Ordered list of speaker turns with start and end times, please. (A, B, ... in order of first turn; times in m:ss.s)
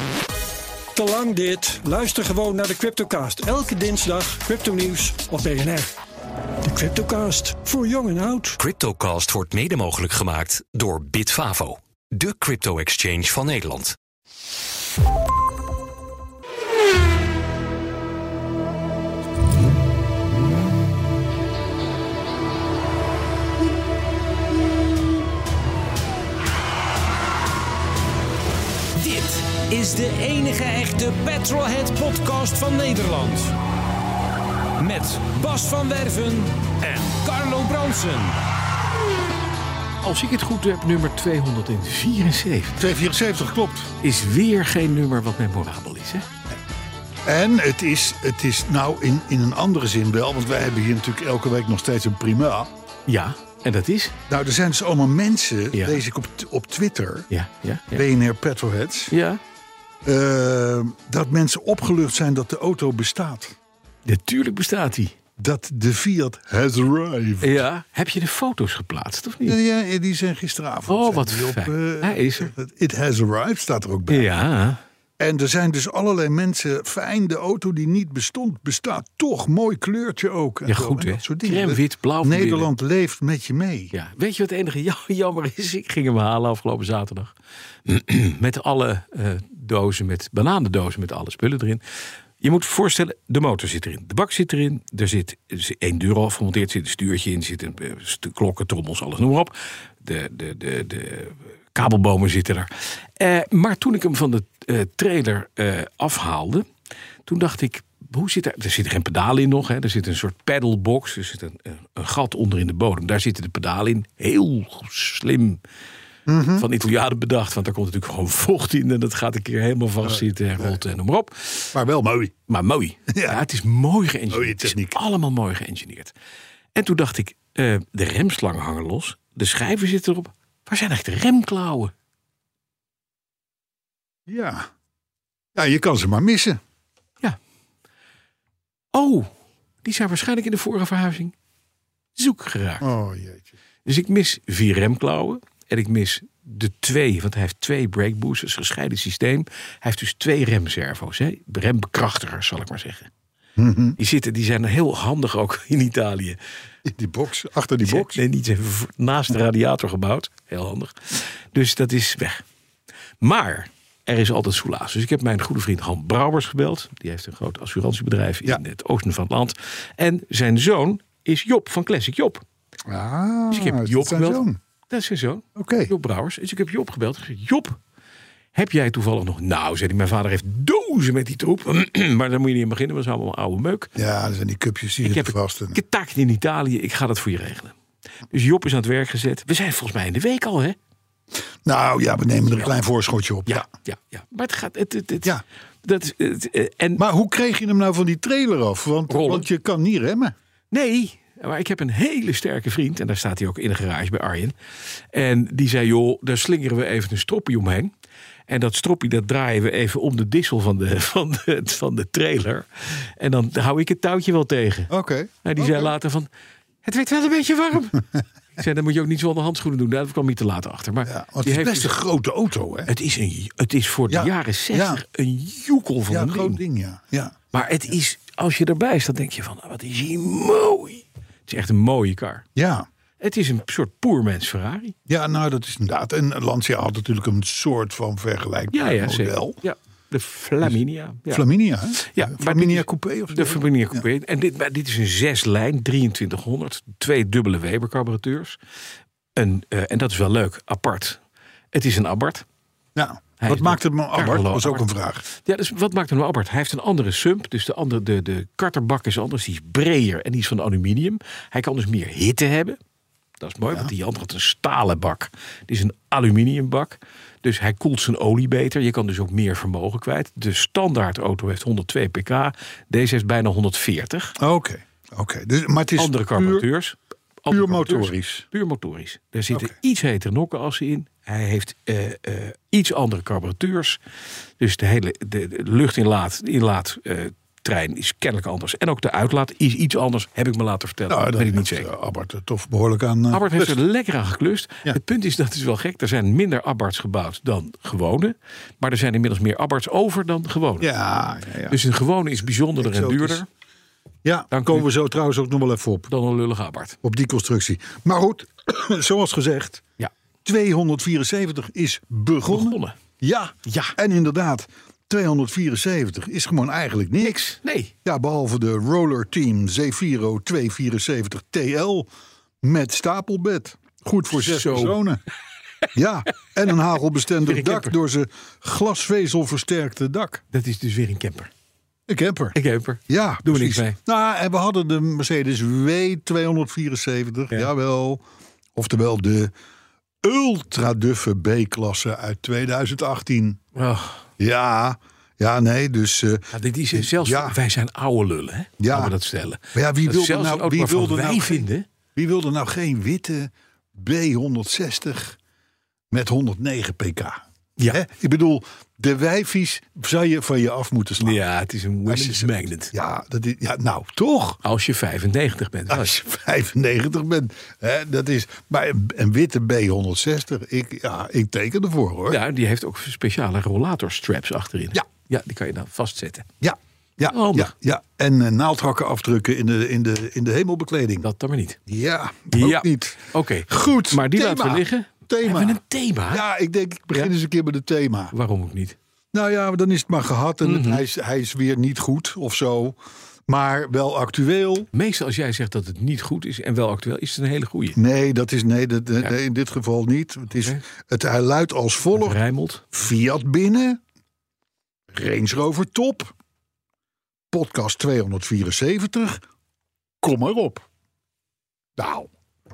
0:00.9-0:05.9 A
0:06.6-0:08.6 A
0:08.6-0:14.0 B
0:29.0-0:33.6 C
0:34.8-0:38.4 C
0:40.0-0:42.8 D
0:42.8-0:43.9 E
0:44.0-0:46.2 D
0:47.2-0:52.7 E
0:53.1-0:54.2 D
0:54.3-0:57.3 E
0:55.7-0:56.0 D
0:57.3-0:58.0 D
0:57.9-0:59.1 E
0:59.1-0:59.4 D
1:00.0-1:03.6 E
1:04.0-1:05.2 D
1:05.4-1:07.6 E
1:07.4-1:09.6 D
1:09.4-1:14.3 E
1:10.9-1:12.5 D
1:14.1-1:14.8 D
1:15.2-1:23.9 E
1:20.7-1:22.7 D
1:23.9-1:27.3 D
1:27.8-1:31.8 D
1:32.4-1:46.6 D
1:47.2-1:55.6 D
1:56.3-1:56.7 E
1:56.6-2:01.7 D
2:00.0-2:00.8 E
2:01.7-2:02.3 E
2:02.5-2:06.1 D
2:03.1-2:03.4 E
2:04.3-2:05.0 E
2:06.7-2:11.9 D
2:14.3-2:14.7 E
2:15.5-2:16.6 E
2:18.9-2:19.3 D
2:19.8-2:21.3 D
2:22.2-2:22.8 D
2:22.8-2:23.5 E
2:23.8-2:33.1 D
2:33.6-2:34.0 E
2:34.0-2:36.4 D
2:36.8-2:38.2 E
2:37.8-2:42.4 D
2:43.2-2:52.4 D
2:52.9-2:54.6 E
2:53.5-2:57.8 D
2:55.5-2:55.9 E
2:58.5-3:03.9 D
3:04.0-3:05.8 E
3:05.0-3:07.8 D
3:08.3-3:10.8 D
3:11.6-3:13.6 E
3:13.5-3:17.0 D
3:17.0-3:20.3 E
3:19.1-3:19.5 D
3:20.7-3:24.5 D
3:25.1-3:27.9 D
3:28.5-3:34.9 D
3:34.9-3:35.9 E
3:35.4-3:36.3 D
3:36.8-3:38.0 D
3:38.6-3:41.9 D
3:41.0-3:42.9 E
3:42.9-3:46.6 D
3:44.1-3:45.0 E
3:46.1-3:47.4 E
3:47.5-3:52.4 D
3:52.5-3:52.9 E
3:53.2-3:54.9 D
3:55.1-3:59.6 E
3:58.7-4:01.4 D
4:01.3-4:04.0 E
4:02.0-4:08.6 D
4:09.4-4:11.2 D
4:11.7-4:12.4 D
4:12.9-4:15.2 E
4:13.4-4:22.8 D
4:23.4-4:34.4 D
4:34.4-4:36.7 E
4:36.0-4:44.0 D
4:37.5-4:38.4 E
4:44.6-4:51.9 D
4:51.1-4:53.8 E
4:53.3-5:00.9 D
5:00.8-5:01.8 E
5:01.7-5:03.4 D
5:02.8-5:03.4 E
5:04.2-5:06.1 E
5:04.5-5:04.9 D
5:06.1-5:07.0 D
5:07.0-5:09.8 E
5:10.4-5:17.4 E
5:12.5-5:13.0 D
5:13.6-5:13.9 D
5:17.2-5:17.9 D
5:18.0-5:22.1 E
5:22.6-5:25.2 E
5:24.3-5:25.0 D
5:25.9-5:30.4 E
5:27.5-5:27.9 D
5:30.5-5:31.5 D
5:32.1-5:32.6 E
5:32.5-5:34.0 D
5:33.1-5:38.2 E
5:38.7-5:39.5 E
5:40.2-5:43.6 E
5:43.7-5:44.2 D
5:44.4-5:47.6 E
5:46.5-5:51.9 D
5:48.8-5:49.1 E
5:49.7-5:55.4 E
5:56.1-6:01.4 E
6:01.2-6:02.9 D
6:02.0-6:04.6 E
6:04.6-6:06.2 D
6:05.9-6:12.4 E
6:12.3-6:16.5 D
6:16.6-6:21.3 E
6:17.3-6:17.7 D
6:21.2-6:21.8 D
6:21.9-6:28.3 E
6:22.5-6:26.4 D
6:28.3-6:29.0 D
6:29.3-6:33.0 E
6:30.6-6:31.0 D
6:33.5-6:34.9 E
6:34.9-6:38.0 D
6:38.0-6:42.4 E
6:42.1-6:42.8 D
6:42.9-6:44.0 E
6:45.1-6:46.3 E
6:47.5-6:49.4 E
6:50.2-6:50.8 E
6:52.0-6:52.3 E